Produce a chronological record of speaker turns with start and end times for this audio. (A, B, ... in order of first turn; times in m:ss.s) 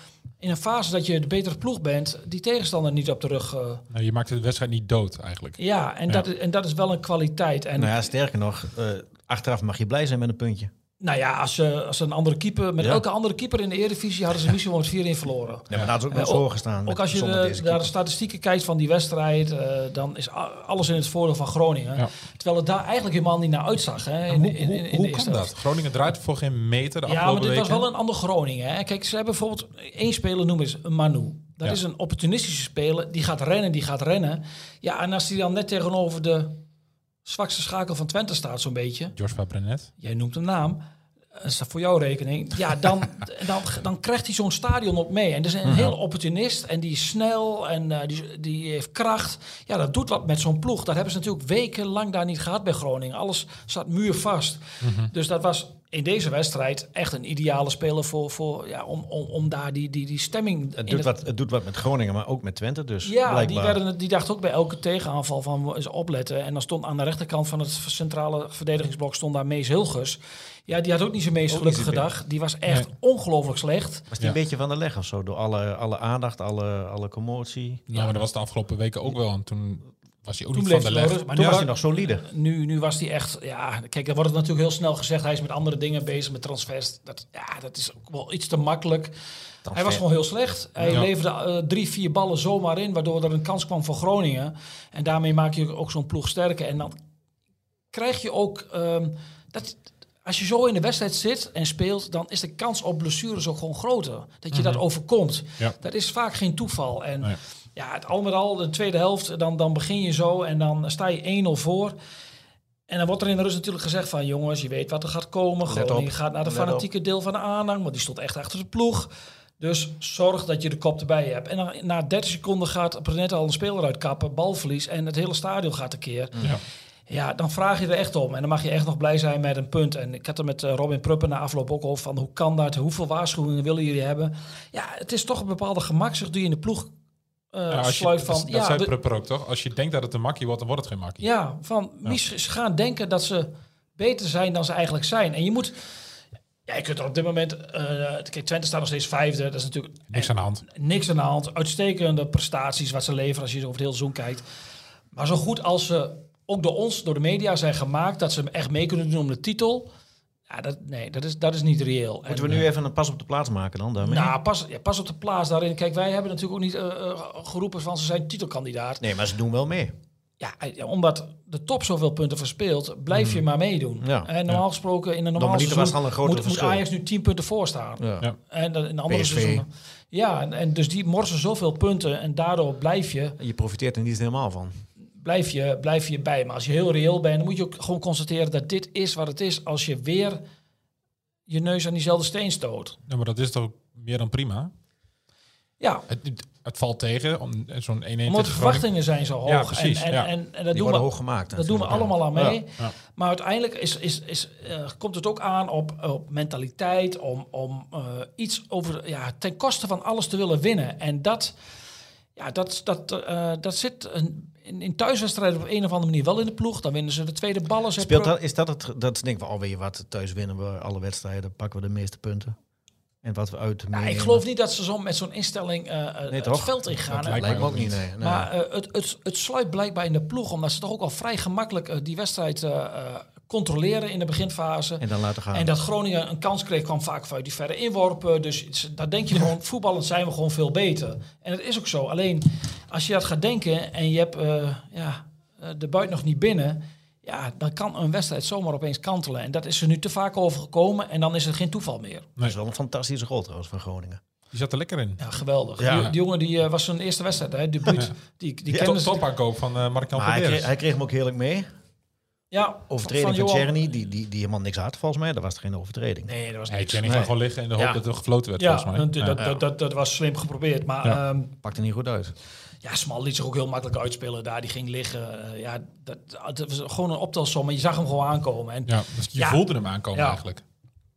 0:00.4-0:03.8 A
0:03.9-0:06.2 B
0:05.6-0:08.1 A
0:07.8-0:10.7 C
0:11.0-0:25.5 A
0:15.7-0:17.9 C
0:24.3-0:27.8 B
0:27.0-0:36.6 A
0:37.2-0:39.1 A
0:39.2-0:39.9 B
0:40.0-0:40.8 A
0:41.4-1:01.1 A
0:54.8-0:55.1 B
1:00.8-1:03.8 C
1:03.0-1:14.1 A
1:11.5-1:12.1 C
1:14.1-1:17.9 C
1:17.9-1:21.6 B
1:20.5-1:29.1 A
1:21.4-1:22.2 C
1:29.7-1:30.0 C
1:29.7-1:37.0 A
1:30.7-1:31.0 C
1:37.9-1:51.9 A
1:44.5-1:44.8 B
1:52.9-2:06.4 A
1:55.6-1:56.9 C
2:07.1-2:16.9 A
2:17.5-2:18.9 A
2:17.7-2:21.2 B
2:21.2-2:25.8 A
2:26.6-2:34.4 A
2:30.1-2:30.6 B
2:35.1-2:39.9 A
2:40.5-2:42.6 A
2:42.2-2:44.4 C
2:44.0-2:49.0 A
2:49.0-2:50.0 C
2:50.4-3:03.4 A
2:54.0-2:54.3 C
2:55.4-2:56.8 C
2:58.0-2:58.3 C
2:59.1-2:59.6 C
3:03.4-3:04.8 C
3:05.2-3:10.4 A
3:11.5-3:13.0 A
3:13.1-3:14.7 B
3:15.8-3:16.1 A
3:16.1-3:18.9 B
3:18.2-3:31.5 A
3:19.4-3:20.3 B
3:20.7-3:22.6 C
3:32.4-3:38.3 A
3:38.0-3:42.5 C
3:43.2-3:44.4 C
3:43.9-3:47.6 A
3:46.3-3:48.5 C
3:47.2-3:48.0 B
3:48.2-4:12.3 A
3:55.0-3:55.7 C
4:12.4-4:14.2 C
4:14.5-4:15.2 B
4:15.2-4:19.2 A
4:15.8-4:16.1 C
4:18.8-4:20.7 B
4:20.1-4:21.7 C
4:22.5-4:23.7 A
4:22.9-4:26.3 C
4:26.3-4:27.3 A
4:26.7-4:29.4 B
4:27.0-4:28.0 C
4:28.6-4:31.5 A
4:29.4-4:29.6 C
4:31.6-4:32.3 C
4:32.8-4:40.4 A
4:38.9-4:40.6 B